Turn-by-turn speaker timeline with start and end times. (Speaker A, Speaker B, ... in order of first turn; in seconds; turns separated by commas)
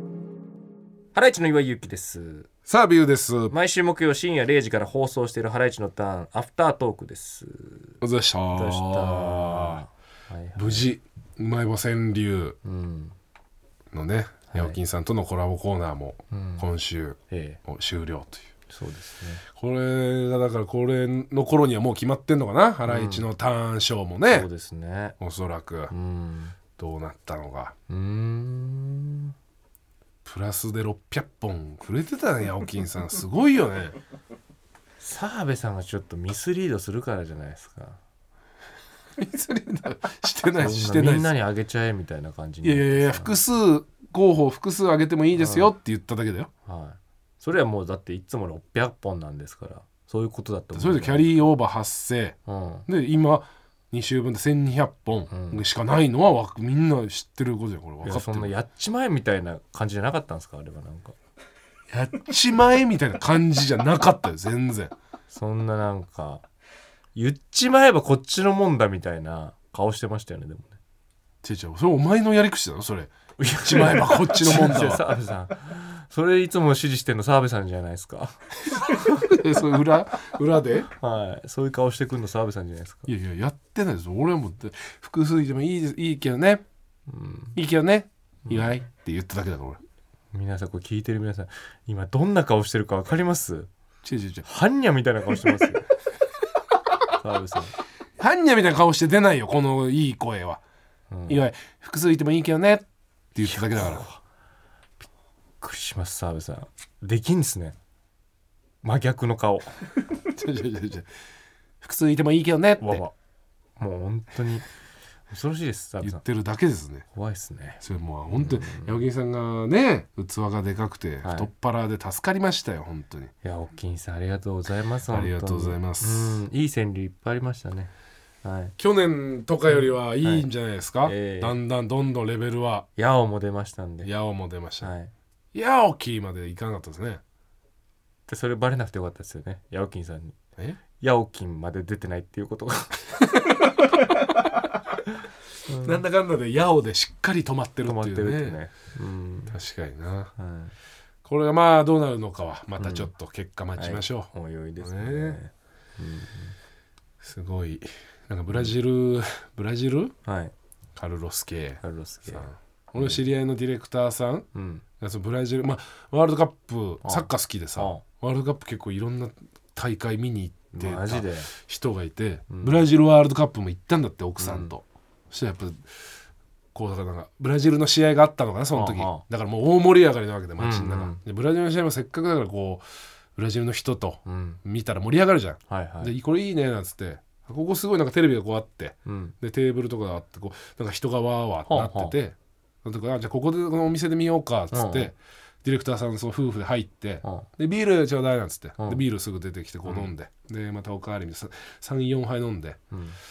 Speaker A: 1.1-2.5, Speaker B: 2.7-3.5, Speaker A: 3.5-8.0, Speaker B: 8.0-9.8, Speaker A: 8.5-10.9, Speaker B: 10.6-12.6, Speaker A: 12.6-13.1, Speaker B: 13.9-18.5, Speaker A: 14.5-14.8, Speaker A: 16.3-16.6, Speaker A: 17.3-17.6, Speaker A: 18.7-19.4, Speaker B: 19.5-24.5, Speaker A: 22.8-23.3, Speaker A: 24.3-25.2, Speaker B: 25.2-25.9, Speaker A: 25.9-26.6, Speaker B: 26.8-27.7, Speaker A: 27.9-29.3, Speaker B: 30.2-34.0, Speaker A: 35.0-38.0, Speaker B: 39.2-41.3, Speaker A: 40.6-43.4, Speaker B: 42.6-46.5, Speaker A: 45.3-45.7, Speaker A: 46.6-51.3, Speaker B: 50.7-52.4, Speaker A: 52.5-52.9, Speaker B: 52.9-58.5, Speaker A: 55.3-55.6, Speaker A: 58.0-61.1, Speaker B: 61.9-64.9, Speaker A: 65.3-66.4, Speaker A: 67.1-70.8, Speaker B: 71.4-75.0, Speaker A: 73.4-79.3, Speaker B: 79.2-80.9, Speaker A: 80.9-83.1, Speaker B: 83.1-86.6, Speaker A: 87.1-87.6, Speaker B: 87.5-89.8, Speaker A: 90.3-93.7, Speaker B: 94.0-94.4, Speaker A: 94.4-95.9, Speaker A: 97.1-97.8, Speaker B: 98.2-100.6, Speaker A: 101.1-101.4, Speaker B: 101.3-104.0, Speaker A: 103.4-104.2, Speaker A: 105.6-107.8, Speaker A: 108.8-109.8, Speaker B: 110.2-111.1, Speaker B: 111.8-113.0, Speaker A: 112.8-113.1, Speaker A: 113.8-114.7, Speaker A: 115.3-116.2, Speaker B: 116.0-117.0, Speaker A: 117.1-119.0, Speaker B: 117.8-123.3, Speaker A: 121.2-121.5, Speaker A: 123.4-127.9, Speaker B: 125.1-126.4, Speaker A: 128.4-128.7, Speaker B: 128.8-132.9, Speaker A: 129.7-130.4, Speaker A: 131.0-131.6, Speaker A: 132.9-134.1, Speaker B: 134.0-134.9, Speaker A: 134.8-135.1, Speaker B: 135.5-137.2, Speaker A: 138.3-140.4, Speaker A: 141.0-143.2, Speaker A: 145.7-146.0, Speaker B: 145.8-148.6, Speaker A: 147.8-149.6, Speaker B: 149.5-150.3, Speaker A: 150.4-150.7, Speaker B: 151.2-155.4, Speaker A: 152.8-153.1, Speaker A: 153.8-156.6, Speaker B: 157.2-160.1, Speaker A: 160.2-160.5, Speaker B: 160.9-164.5, Speaker A: 161.8-162.5, Speaker A: 164.5-164.8, Speaker B: 165.0-176.0, Speaker A: 167.0-168.0, Speaker A: 170.7-171.5, Speaker A: 172.5-172.8, Speaker A: 174.4-174.7, Speaker B: 176.7-182.8, Speaker A: 178.7-179.2, Speaker A: 180.6-181.2, Speaker B: 183.3-202.8, Speaker A: 184.2-184.6, Speaker A: 185.7-186.1, Speaker A: 189.0-189.3, Speaker A: 191.7-192.2, Speaker A: 194.7-195.1, Speaker A: 198.8-199.0, Speaker A: 199.8-200.1, Speaker A: 202.9-203.2